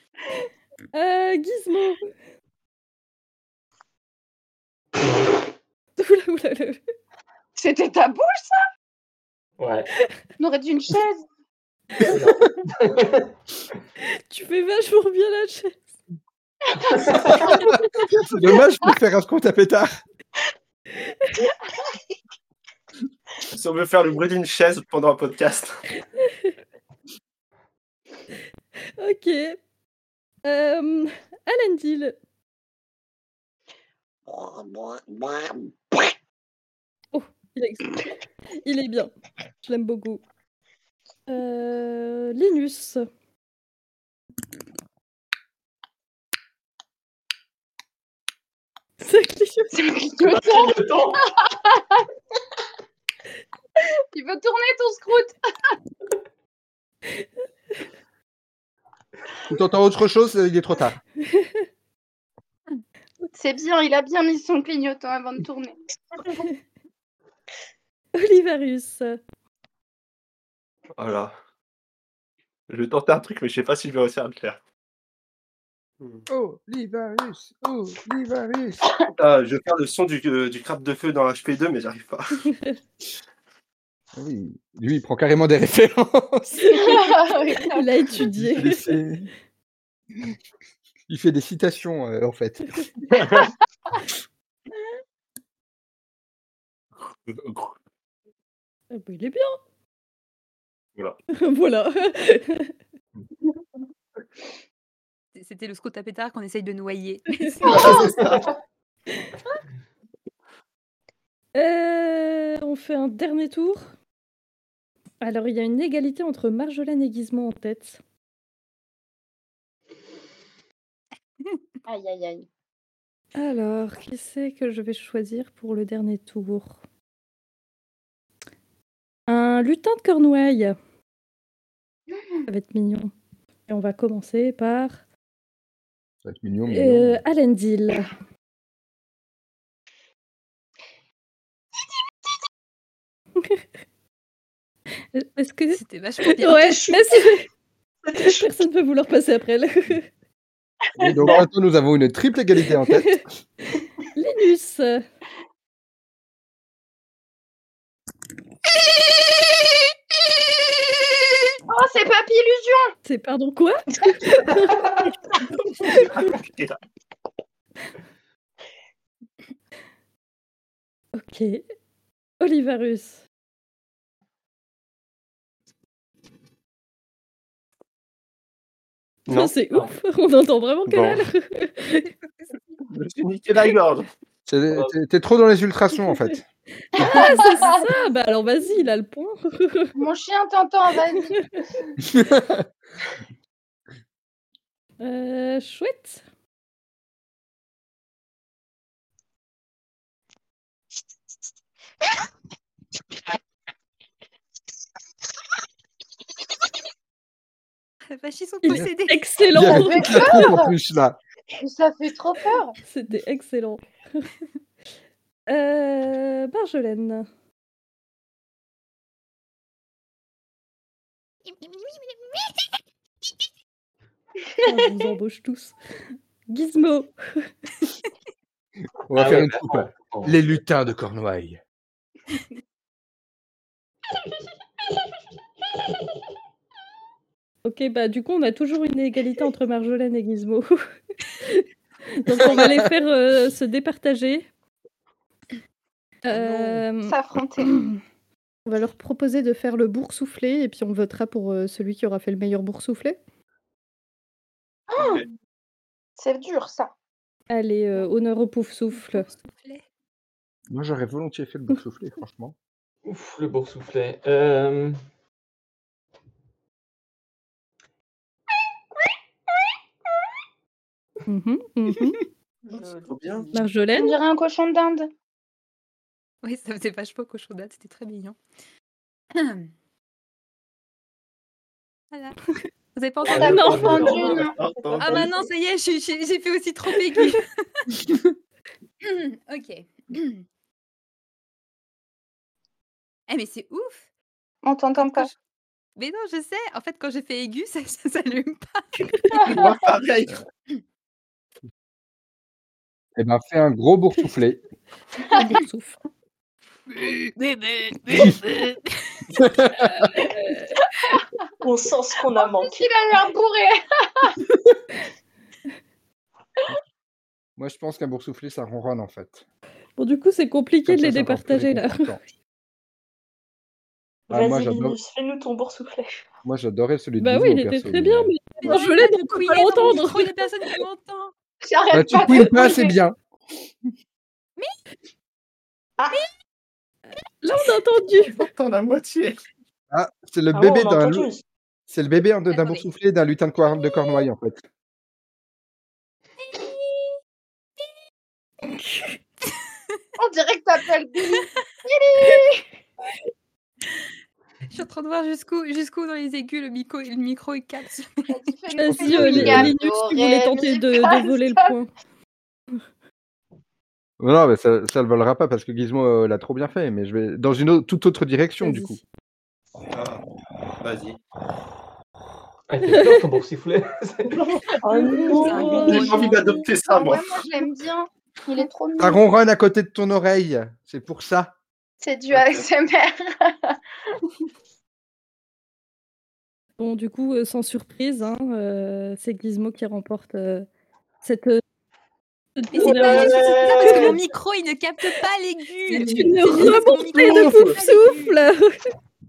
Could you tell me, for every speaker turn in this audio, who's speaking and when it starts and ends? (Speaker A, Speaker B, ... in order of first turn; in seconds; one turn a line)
Speaker A: 0.9-2.0
Speaker A: 6.0-6.8
Speaker B: 7.6-8.6
Speaker C: 9.6-9.9
Speaker B: 10.4-11.2
Speaker C: 12.0-13.3
Speaker A: 14.3-15.8
Speaker B: 16.8-17.8
Speaker C: 16.9-17.4
Speaker D: 17.4-20.0
Speaker A: 21.0-21.4
Speaker E: 23.5-25.8
Speaker A: 29.0-29.6
Speaker A: 30.4-32.1
Speaker A: 37.1-38.0
Speaker A: 38.6-39.1
Speaker A: 39.6-40.2
Speaker A: 41.3-43.0
Speaker A: 49.0-49.8
Speaker B: 49.7-50.7
Speaker C: 50.2-51.3
Speaker B: 51.4-52.0
Speaker B: 54.1-55.3
Speaker D: 59.5-61.0
Speaker A: 61.3-61.6
Speaker B: 63.3-65.8
Speaker A: 68.2-69.2
Speaker E: 71.0-71.4
Speaker E: 72.7-74.6
Speaker D: 76.3-78.8
Speaker E: 79.2-82.4
Speaker D: 84.2-86.7
Speaker A: 86.6-88.9
Speaker B: 86.7-87.8
Speaker D: 88.2-89.3
Speaker D: 91.1-92.8
Speaker E: 93.1-93.5
Speaker E: 97.1-97.7
Speaker A: 98.9-99.6
Speaker A: 101.3-102.7
Speaker F: 105.4-108.0
Speaker A: 107.5-107.9
Speaker B: 107.6-108.2
Speaker E: 107.7-108.5
Speaker A: 111.6-113.9
Speaker A: 115.2-118.0
Speaker B: 121.9-122.5
Speaker A: 123.4-126.8
Speaker A: 129.3-130.8
Speaker A: 132.5-133.1
Speaker A: 133.7-135.0
Speaker D: 136.2-137.2
Speaker A: 136.7-138.1
Speaker A: 145.1-145.8
Speaker F: 145.7-146.8
Speaker A: 146.4-147.5
Speaker G: 146.5-147.3
Speaker G: 148.0-148.5
Speaker A: 148.2-150.0
Speaker D: 151.0-153.2
Speaker A: 152.9-153.2
Speaker A: 153.7-155.0
Speaker B: 161.7-162.9
Speaker A: 163.0-165.1
Speaker A: 165.8-166.3
Speaker E: 165.8-166.8
Speaker A: 171.1-171.6
Speaker A: 172.4-173.2
Speaker E: 179.3-179.5
Speaker A: 179.3-182.1
Speaker E: 180.9-181.2
Speaker E: 182.9-184.1
Speaker D: 184.5-186.4
Speaker A: 186.9-189.9
Speaker B: 187.0-187.9
Speaker F: 187.0-187.7
Speaker B: 189.9-191.5
Speaker D: 192.0-192.7
Speaker A: 195.0-196.2
Speaker F: 208.1-209.2
Speaker A: 208.6-210.5
Speaker D: 209.5-211.2
Speaker B: 209.6-210.7
Speaker B: 211.6-212.8
Speaker A: 212.8-214.3
Speaker A: 215.5-217.3
Speaker F: 221.6-222.5
Speaker A: 224.6-225.7
Speaker A: 226.5-227.1
Speaker D: 229.1-231.6
Speaker C: 229.1-230.6
Speaker A: 237.6-240.8
Speaker A: 242.1-244.5
Speaker D: 242.4-242.9
Speaker A: 246.2-248.0
Speaker B: 247.0-247.7
Speaker A: 248.7-253.2
Speaker B: 254.9-255.2
Speaker E: 255.0-255.3
Speaker B: 256.2-256.9
Speaker A: 257.5-259.3
Speaker F: 259.1-259.8
Speaker D: 260.7-262.5
Speaker C: 263.1-265.0
Speaker A: 271.3-272.2
Speaker E: 272.8-273.5
Speaker G: 272.8-273.1
Speaker A: 273.5-274.2
Speaker B: 273.9-275.1
Speaker F: 276.4-278.4
Speaker F: 279.3-279.7
Speaker F: 282.9-288.2
Speaker B: 283.2-285.2
Speaker C: 283.2-284.5
Speaker A: 283.5-284.1
Speaker E: 283.8-285.5
Speaker F: 289.0-290.4
Speaker F: 293.3-294.1
Speaker B: 294.6-295.3
Speaker F: 295.9-298.9
Speaker A: 299.1-299.6
Speaker E: 299.4-300.4
Speaker D: 303.1-304.6
Speaker A: 305.3-306.0
Speaker F: 307.3-308.9
Speaker D: 309.4-310.1
Speaker A: 310.4-310.6
Speaker G: 311.6-312.9
Speaker B: 312.3-314.4
Speaker D: 317.6-319.4
Speaker A: 320.0-322.1
Speaker D: 320.9-322.2
Speaker G: 324.3-326.3
Speaker D: 324.3-325.0
Speaker D: 326.4-328.3
Speaker A: 327.2-330.3
Speaker F: 328.6-331.3
Speaker B: 331.6-332.9
Speaker D: 331.9-333.2
Speaker A: 337.4-338.4
Speaker E: 338.2-339.4
Speaker D: 339.9-341.3
Speaker G: 340.5-341.4
Speaker D: 341.9-344.6
Speaker F: 342.5-342.9
Speaker A: 348.8-349.0
Speaker B: 350.2-352.6
Speaker F: 354.7-358.4
Speaker B: 358.3-361.7
Speaker A: 358.8-361.9
Speaker D: 359.0-359.7
Speaker D: 364.2-369.0
Speaker A: 368.6-369.0
Speaker E: 369.9-370.2
Speaker E: 370.8-371.2
Speaker C: 372.7-374.6
Speaker G: 374.8-376.2
Speaker A: 375.1-376.6
Speaker F: 375.4-376.7
Speaker E: 375.9-377.4
Speaker B: 376.9-379.2
Speaker D: 379.0-381.5
Speaker B: 382.0-383.8
Speaker E: 382.3-382.6
Speaker A: 386.8-390.7
Speaker A: 391.2-391.6
Speaker A: 392.6-394.1
Speaker F: 392.7-398.3
Speaker C: 392.8-394.2
Speaker A: 395.9-398.8
Speaker E: 397.1-397.7